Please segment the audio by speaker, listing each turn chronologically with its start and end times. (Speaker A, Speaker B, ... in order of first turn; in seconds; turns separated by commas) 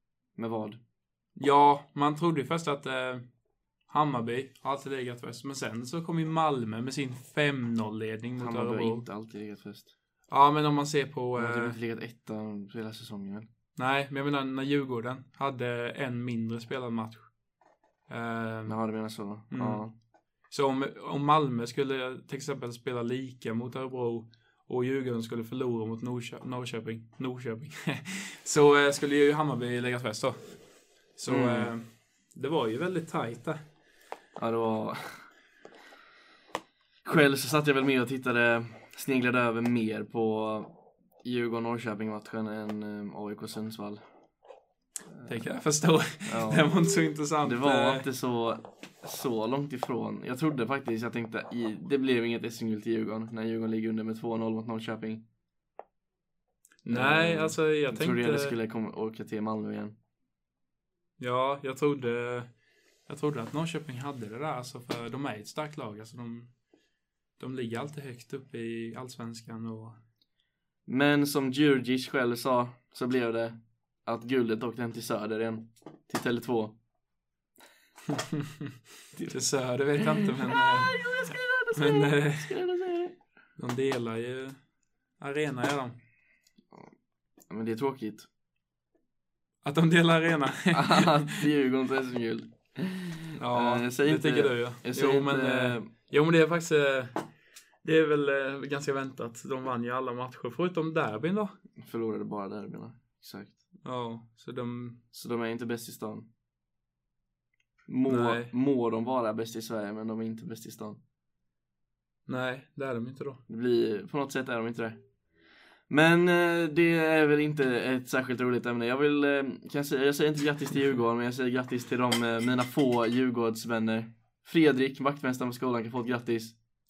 Speaker A: 0.4-0.8, Speaker B: 1.4-3.2, Speaker B: 3.9-9.1, Speaker A: 8.4-9.9, Speaker B: 10.3-11.8, Speaker A: 11.3-13.5, Speaker B: 13.8-17.3, Speaker B: 18.1-18.8, Speaker A: 18.7-19.9, Speaker B: 19.5-19.9, Speaker B: 20.5-30.4, Speaker B: 31.1-33.6, Speaker A: 31.3-31.7, Speaker A: 34.4-35.3, Speaker A: 37.0-44.0, Speaker B: 45.3-48.1, Speaker A: 46.3-46.7, Speaker A: 47.4-55.2, Speaker B: 56.8-58.5, Speaker A: 56.9-60.0, Speaker B: 61.2-62.5, Speaker B: 63.1-66.5, Speaker B: 67.4-70.0, Speaker A: 70.9-76.8, Speaker B: 78.1-78.7, Speaker B: 79.3-81.0, Speaker A: 80.0-83.2, Speaker B: 81.8-82.5, Speaker B: 83.6-84.6, Speaker B: 85.2-86.0, Speaker A: 87.5-88.3, Speaker B: 89.6-91.5, Speaker A: 90.7-95.9, Speaker B: 93.4-97.2, Speaker B: 97.8-101.6, Speaker A: 101.8-103.6, Speaker B: 103.8-105.0, Speaker A: 105.1-106.3, Speaker A: 107.9-111.0, Speaker B: 108.1-108.5, Speaker B: 112.3-113.4, Speaker A: 113.5-115.0, Speaker A: 115.9-126.6